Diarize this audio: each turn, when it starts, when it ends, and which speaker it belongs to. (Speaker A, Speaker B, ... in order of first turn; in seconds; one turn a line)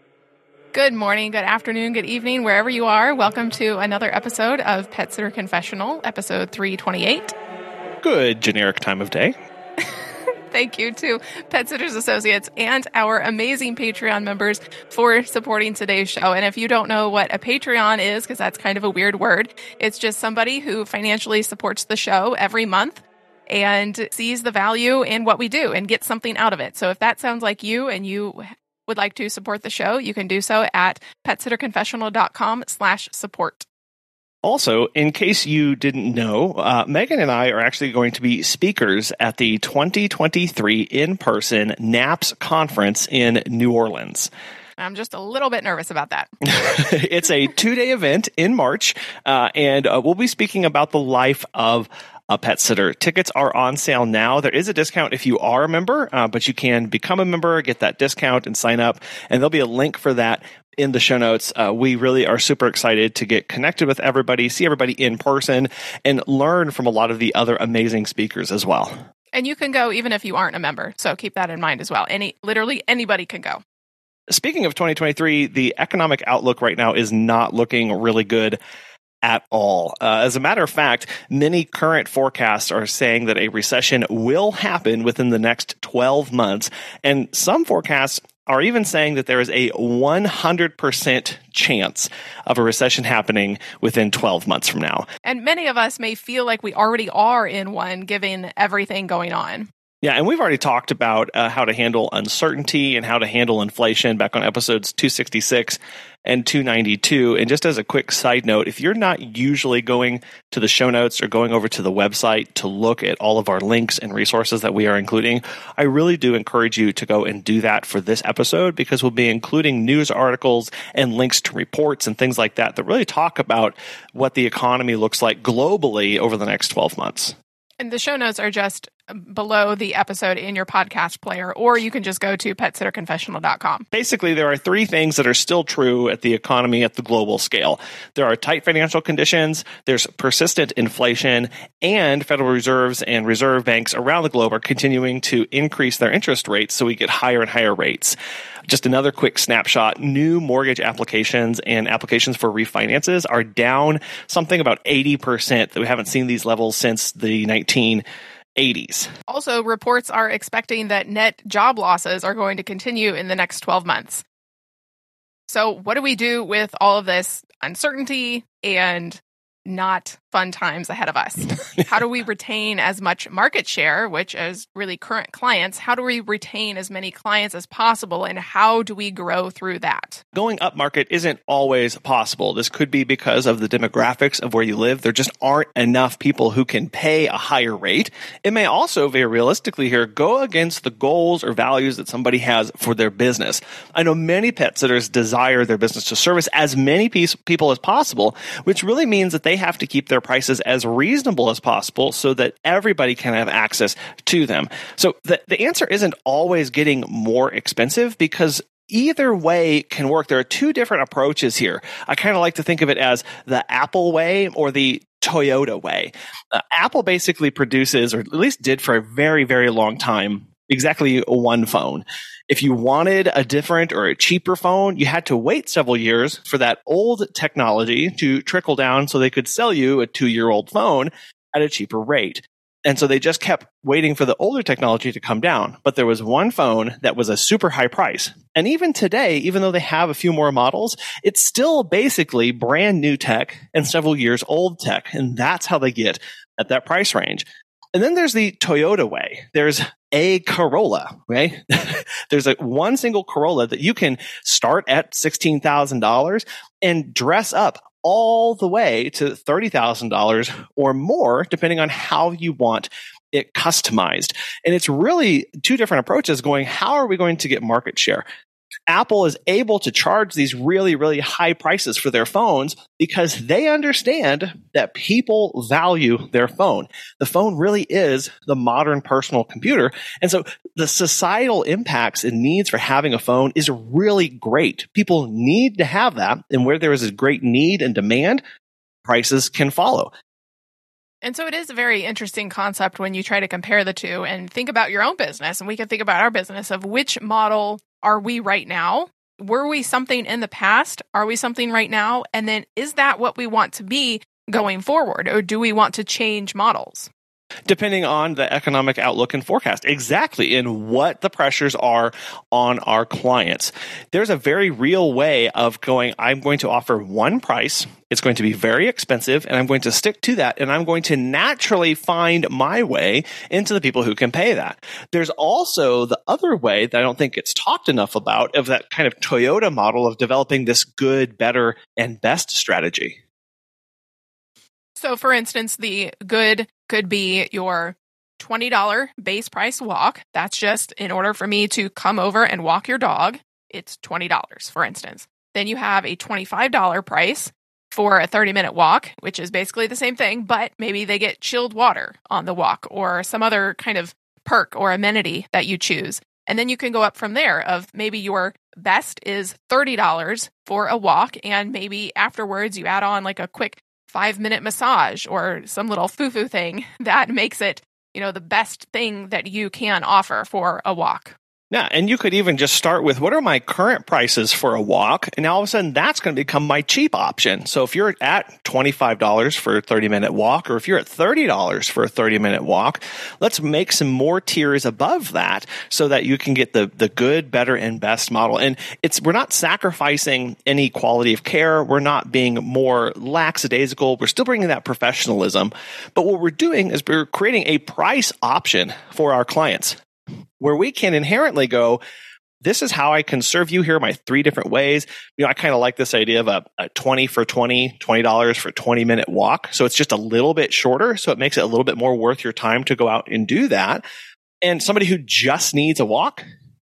Speaker A: 0.7-7.3
Speaker B: 8.0-9.3
Speaker A: 10.5-33.7
Speaker B: 34.4-44.3
Speaker A: 44.8-46.3
Speaker B: 46.4-68.9
Speaker A: 69.3-73.6
Speaker B: 74.3-78.6
Speaker B: 79.2-95.1
Speaker A: 95.2-99.7
Speaker B: 100.0-127.3
Speaker A: 127.8-133.9
Speaker B: 133.9-148.2
Speaker B: 148.7-158.0
Speaker B: 158.6-159.1
Speaker A: 159.3-164.2
Speaker A: 165.5-180.2
Speaker B: 180.3-268.2
Speaker B: 268.9-288.4
Speaker B: 289.0-290.1
Speaker A: 291.2-307.1
Speaker B: 307.7-333.2
Speaker A: 335.0-371.4
Speaker B: 371.7-400.0
Speaker B: 400.6-402.0
Speaker B: 402.6-414.0
Speaker B: 414.6-416.4